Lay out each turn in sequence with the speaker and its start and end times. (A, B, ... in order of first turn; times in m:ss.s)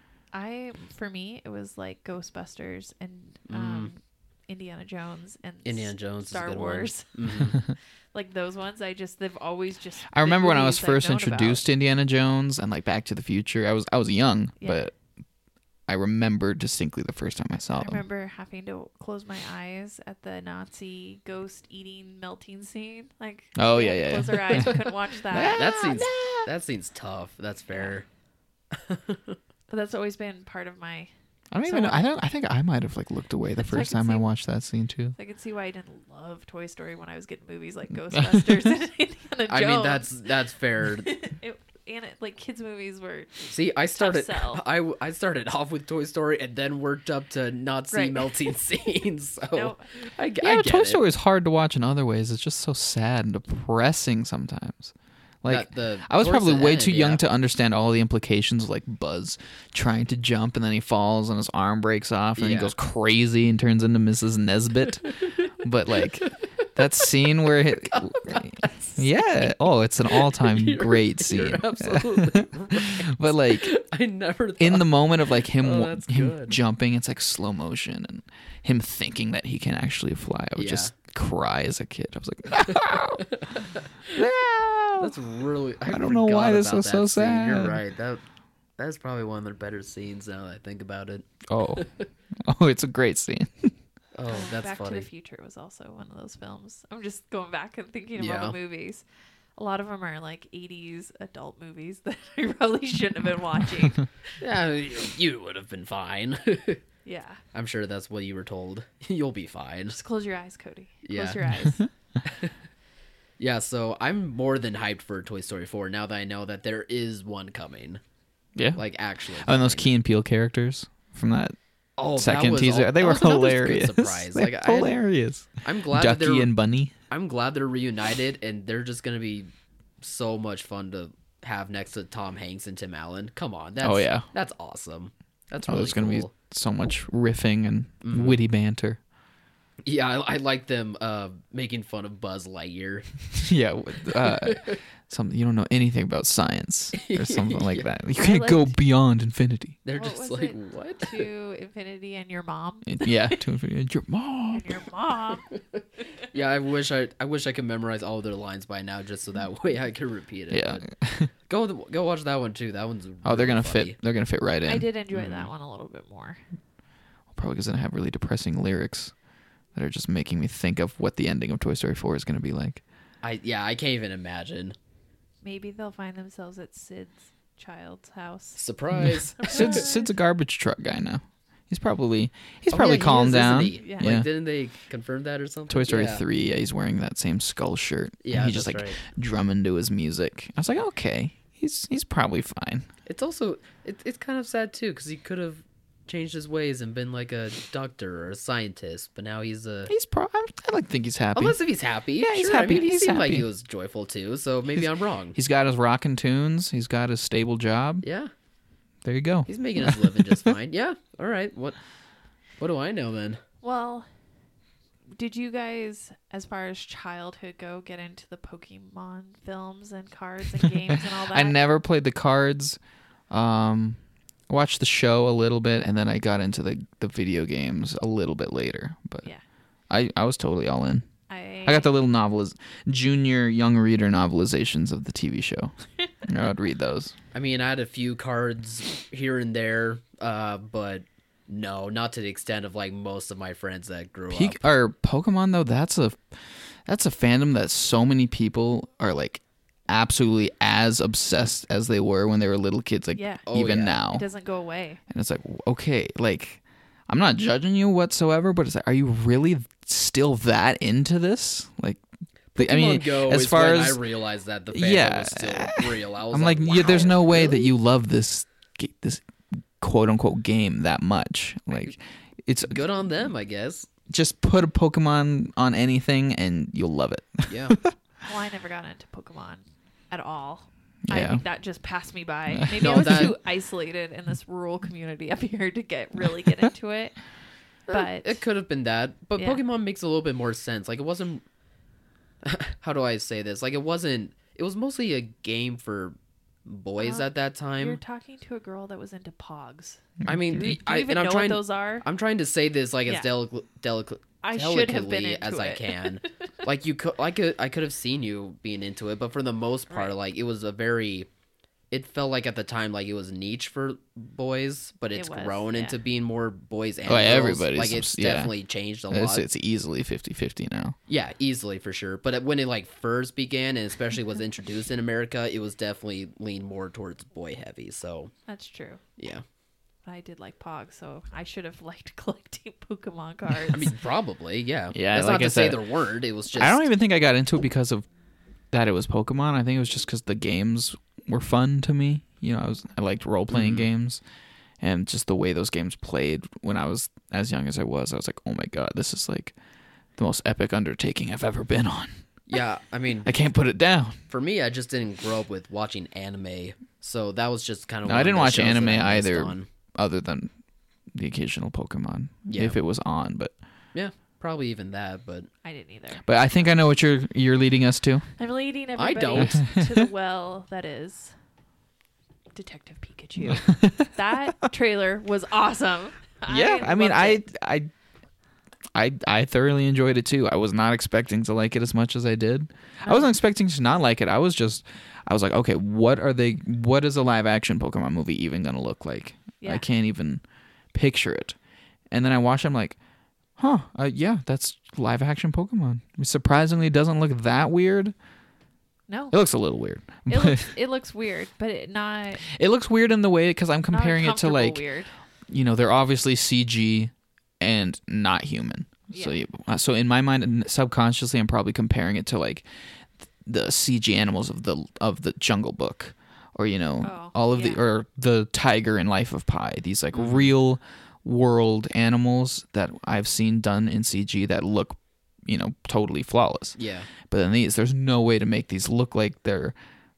0:00.3-0:07.5 A
0:03.5-0:03.9 B
0:05.6-0:07.6 B
0:08.1-0:11.6 A
0:10.1-0:14.9 C
0:14.6-0:14.9 A
0:15.9-0:18.0 C
0:17.8-0:25.8 A
0:23.6-0:26.5 C
0:25.5-0:28.1 B
0:28.7-0:29.4 B
0:29.7-0:31.1 A
0:31.5-0:35.2 C
0:31.6-0:32.1 A
0:33.6-0:34.3 A
0:35.2-0:40.3 A
0:38.1-0:38.7 C
0:39.5-0:41.2 B
0:40.8-0:44.6 A
0:43.5-0:51.0 B
0:47.9-0:48.4 A
0:49.5-0:49.9 A
0:50.4-1:13.7 C
0:55.5-0:57.2 B
1:02.4-1:02.7 B
1:05.0-1:05.5 B
1:06.0-1:06.4 B
1:07.7-1:09.5 B
1:10.1-1:16.6 B
1:14.6-1:23.2 C
1:20.6-1:20.9 B
1:22.5-1:24.2 B
1:24.1-1:25.2 C
1:25.0-1:28.2 B
1:25.9-1:27.8 C
1:28.8-1:32.1 B
1:31.5-1:31.9 C
1:32.4-1:33.7 C
1:34.2-1:35.1 B
1:34.3-1:39.0 A
1:38.2-1:38.6 B
1:39.6-1:44.0 A
1:44.4-1:46.8 B
1:47.0-1:47.4 A
1:47.5-1:50.0 B
1:49.9-1:51.8 A
1:51.0-1:51.4 B
1:52.3-1:52.5 B
1:53.4-1:58.0 B
1:58.6-1:58.8 C
1:58.8-1:59.9 B
1:59.4-2:01.6 C
2:02.0-2:05.0 B
2:02.2-2:06.9 C
2:05.6-2:06.5 B
2:07.1-2:09.5 B
2:10.0-2:16.3 B
2:13.8-2:14.3 C
2:15.6-2:19.0 C
2:18.0-2:18.4 B
2:19.8-2:23.1 B
2:23.3-2:29.8 C
2:24.1-2:24.8 B
2:27.0-2:27.9 B
2:28.2-2:28.8 A
2:29.8-2:31.3 B
2:30.0-2:33.4 A
2:32.9-2:34.8 C
2:34.5-2:35.5 A
2:35.5-2:35.8 B
2:36.0-2:36.3 A
2:36.3-2:40.9 B
2:40.5-2:41.3 C
2:41.5-2:44.0 B
2:43.2-2:44.9 C
2:44.6-2:46.4 A
2:45.1-2:45.5 B
2:47.3-2:49.1 C
2:49.8-2:52.8 C
2:53.2-2:54.8 B
2:55.4-2:58.6 A
2:58.6-2:59.9 B
2:58.9-3:04.3 C
2:59.4-3:00.1 A
3:02.7-3:06.2 B
3:03.8-3:04.1 A
3:05.7-3:12.9 C
3:08.2-3:09.0 B
3:13.1-3:19.9 B
3:19.9-3:21.6 C
3:21.4-3:25.4 B
3:22.2-3:23.5 C
3:24.8-3:28.0 C
3:28.0-3:28.3 B
3:29.0-3:30.6 C
3:29.5-3:31.8 B
3:32.6-3:33.4 B
3:33.6-3:34.1 A
3:35.1-3:41.6 A
3:41.0-3:42.8 C
3:43.3-3:49.3 C
3:49.9-3:51.1 C
3:51.3-3:51.9 A
3:51.6-3:55.7 C
3:56.2-3:57.2 C
3:57.3-4:04.6 B
4:04.3-4:06.2 C
4:06.9-4:14.2 C
4:13.2-4:13.4 A
4:13.5-4:14.0 B
4:14.1-4:15.0 A
4:15.1-4:22.0 C
4:22.6-4:27.7 B
4:22.6-4:24.0 C
4:24.7-4:29.2 C
4:29.8-4:32.8 C
4:32.7-4:33.9 B
4:34.1-4:37.9 C
4:37.5-4:37.8 B
4:38.2-4:47.2 A
4:41.1-4:41.4 C
4:42.5-4:43.3 C
4:42.8-4:43.4 B
4:47.9-4:51.4 B
4:47.9-4:48.4 A
4:52.4-4:58.0 B
4:57.0-5:02.0 A
5:00.2-5:00.7 C
5:00.2-5:11.3 B
5:04.4-5:06.3 A
5:09.9-5:10.2 A
5:11.9-5:19.4 B
5:15.1-5:16.0 A
5:17.1-5:18.5 C
5:19.1-5:21.0 C
5:21.1-5:28.3 B
5:28.5-5:29.0 A
5:29.2-5:29.4 B
5:30.1-5:33.9 A
5:33.7-5:36.8 B
5:34.9-5:35.8 C
5:36.6-5:38.1 C
5:38.7-5:44.2 C
5:43.5-5:43.9 B
5:44.8-5:49.6 C
5:50.2-5:52.1 C
5:52.5-5:53.3 B
5:53.2-5:54.2 C
5:54.3-5:59.7 B
5:58.1-6:00.5 C
6:01.1-6:03.5 C
6:02.5-6:02.8 B
6:03.9-6:05.5 B
6:05.6-6:06.3 A
6:06.2-6:08.3 C
6:08.4-6:11.4 A
6:09.0-6:09.6 B
6:09.4-6:10.0 C
6:12.6-6:17.4 A
6:13.4-6:14.1 C
6:16.5-6:17.9 C
6:19.0-6:30.4 C
6:23.0-6:23.3 A
6:30.9-6:31.6 C
6:32.1-6:33.0 C
6:33.6-6:38.1 C
6:39.1-6:39.4 A
6:39.3-6:40.7 C
6:40.3-6:42.4 A
6:42.5-6:44.8 C
6:43.9-6:45.1 A
6:45.5-6:52.6 C
6:49.1-6:49.4 A
6:53.5-7:09.8 C
6:57.0-6:57.8 A
7:00.1-7:00.5 B
7:06.8-7:07.1 B